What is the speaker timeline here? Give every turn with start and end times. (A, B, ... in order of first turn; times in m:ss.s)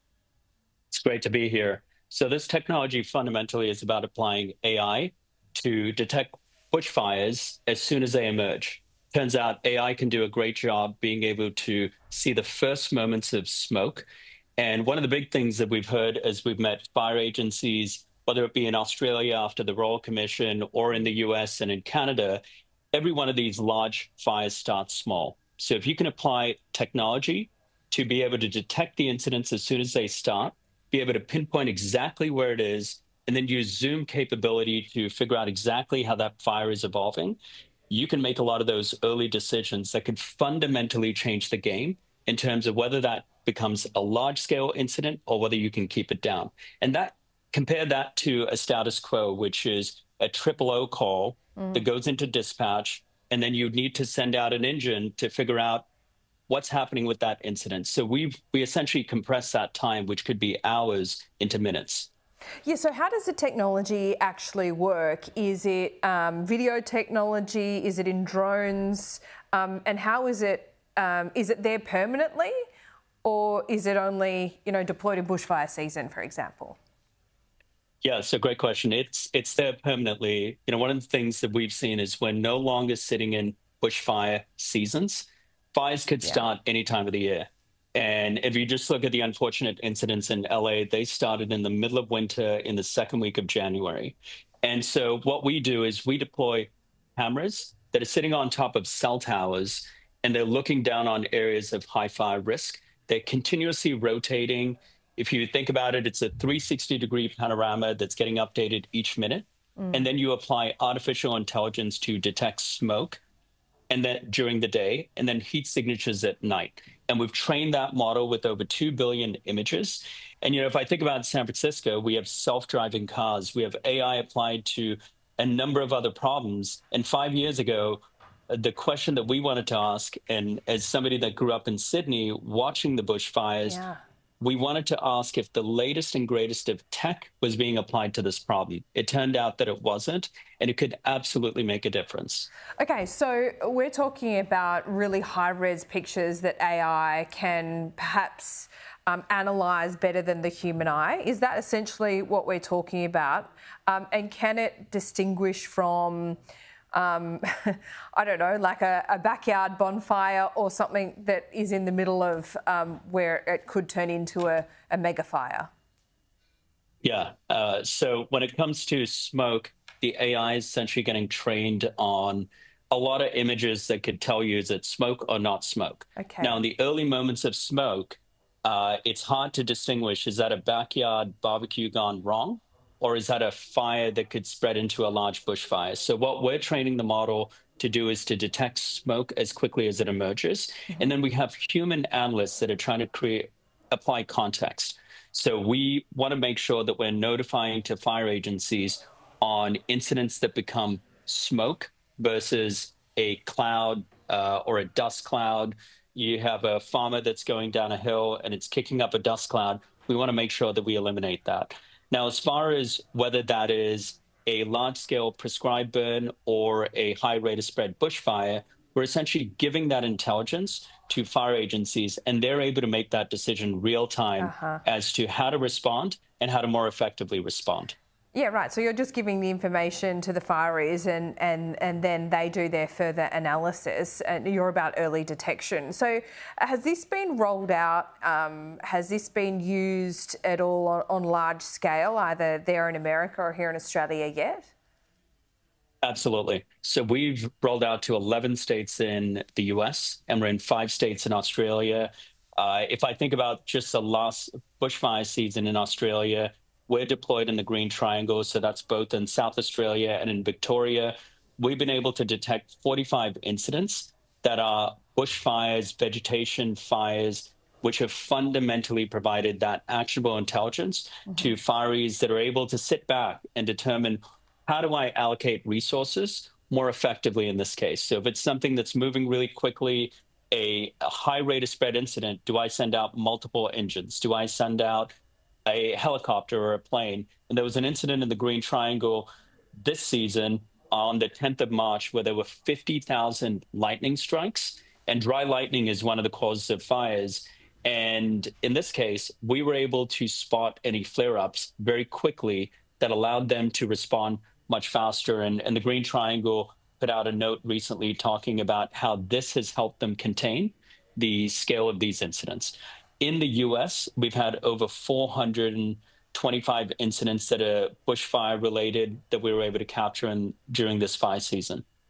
0:00.9-0:14.1 A
0:14.6-0:22.4 A
0:22.9-0:37.4 A
0:37.9-0:55.9 A
0:51.6-0:51.8 B
0:56.5-1:02.1 A
1:02.6-1:12.5 B
1:13.2-1:16.8 B
1:18.0-1:53.2 A
1:49.8-1:50.0 B
1:53.9-2:13.8 A
2:13.6-2:14.0 B
2:14.4-2:22.5 A
2:22.8-2:36.4 B
2:36.9-2:45.7 B
2:47.0-3:48.0 A
2:56.2-2:56.6 B
3:44.4-3:44.8 B
3:48.3-4:04.7 B
4:06.0-4:45.1 A
4:45.6-4:49.3 A
4:49.8-5:21.8 A